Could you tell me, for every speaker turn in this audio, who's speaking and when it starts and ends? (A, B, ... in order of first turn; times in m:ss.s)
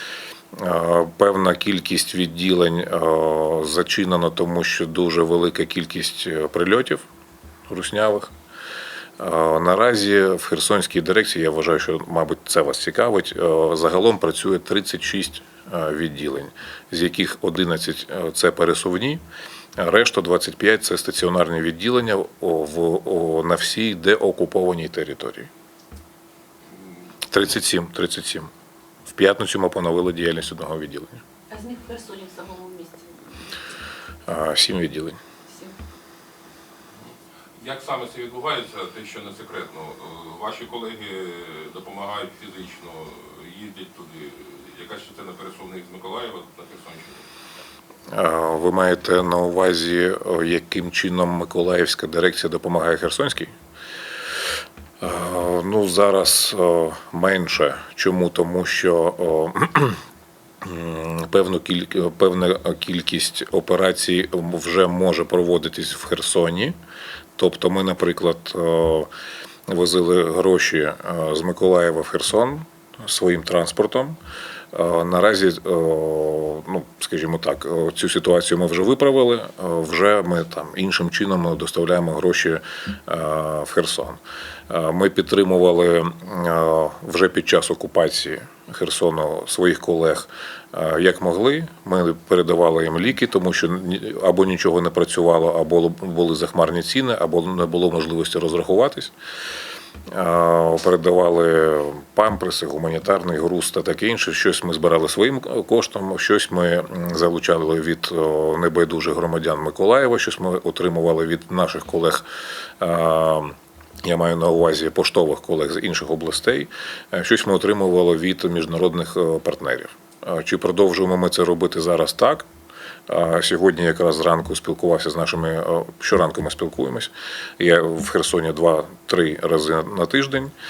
0:00.5-0:07.0 A
0:07.7-0:08.3 A
0:09.2-0:19.2 A
0:19.8-0:25.5 A
0:27.3-0:28.5 A
0:29.1-0:31.2 A
0:31.5-0:33.7 B
0:34.3-0:35.2 A
0:35.5-0:35.8 B
0:36.9-0:47.3 C
0:48.1-0:53.5 A
0:55.0-1:00.0 A
1:00.6-1:06.8 A
1:07.4-1:09.1 A
1:09.7-1:14.2 A
1:14.7-1:39.1 A
1:40.1-1:52.2 A
1:52.8-2:02.5 A
2:03.1-2:10.5 A